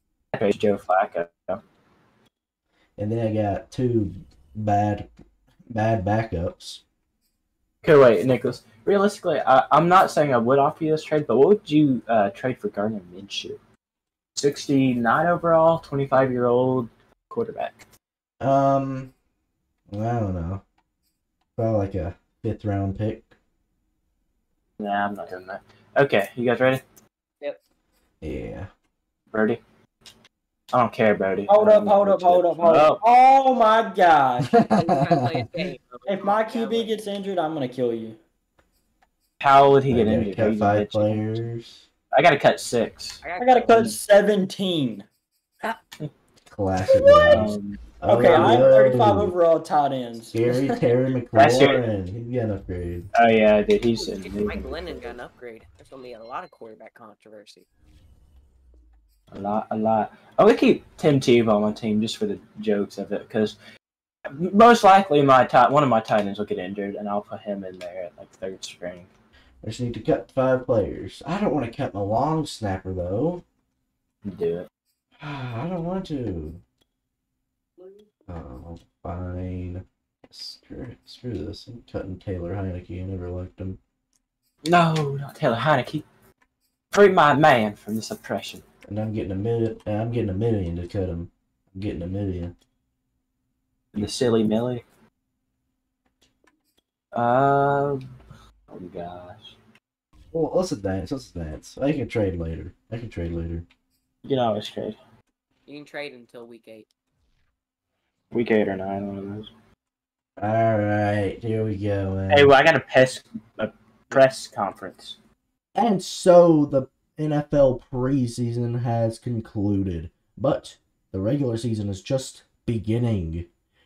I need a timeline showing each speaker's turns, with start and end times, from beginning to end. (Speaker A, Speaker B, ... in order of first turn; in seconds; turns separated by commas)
Speaker A: 0.3-1.6, Speaker B: 3.0-5.1, Speaker B: 5.7-6.8, Speaker A: 7.8-13.6, Speaker A: 14.3-17.8, Speaker B: 18.4-19.1, Speaker B: 19.9-20.6, Speaker B: 21.6-23.4, Speaker A: 24.8-26.8, Speaker B: 28.2-28.7, Speaker A: 29.3-29.6, Speaker A: 30.7-33.0, Speaker C: 31.5-34.5, Speaker D: 34.5-36.9, Speaker B: 34.6-35.1, Speaker C: 36.1-38.2, Speaker A: 39.4-41.4, Speaker B: 39.9-41.9, Speaker A: 42.1-43.2, Speaker D: 43.2-44.0, Speaker C: 43.4-45.0, Speaker B: 46.5-49.3, Speaker A: 47.3-48.8, Speaker C: 48.1-50.8, Speaker B: 50.3-53.1, Speaker A: 51.4-51.8, Speaker A: 53.1-55.2, Speaker D: 54.0-57.6, Speaker A: 59.3-63.6, Speaker A: 64.3-69.1, Speaker B: 69.6-73.4, Speaker A: 74.2-74.7, Speaker B: 75.2-76.6, Speaker B: 78.3-83.8, Speaker A: 84.7-86.0, Speaker A: 86.9-88.6, Speaker B: 88.9-92.5, Speaker A: 93.9-94.8, Speaker A: 97.1-98.0, Speaker A: 98.7-99.5, Speaker B: 100.3-103.7, Speaker A: 104.2-105.0, Speaker D: 105.7-106.9, Speaker A: 108.3-109.5, Speaker B: 110.4-112.5, Speaker A: 112.3-115.2, Speaker B: 115.8-123.5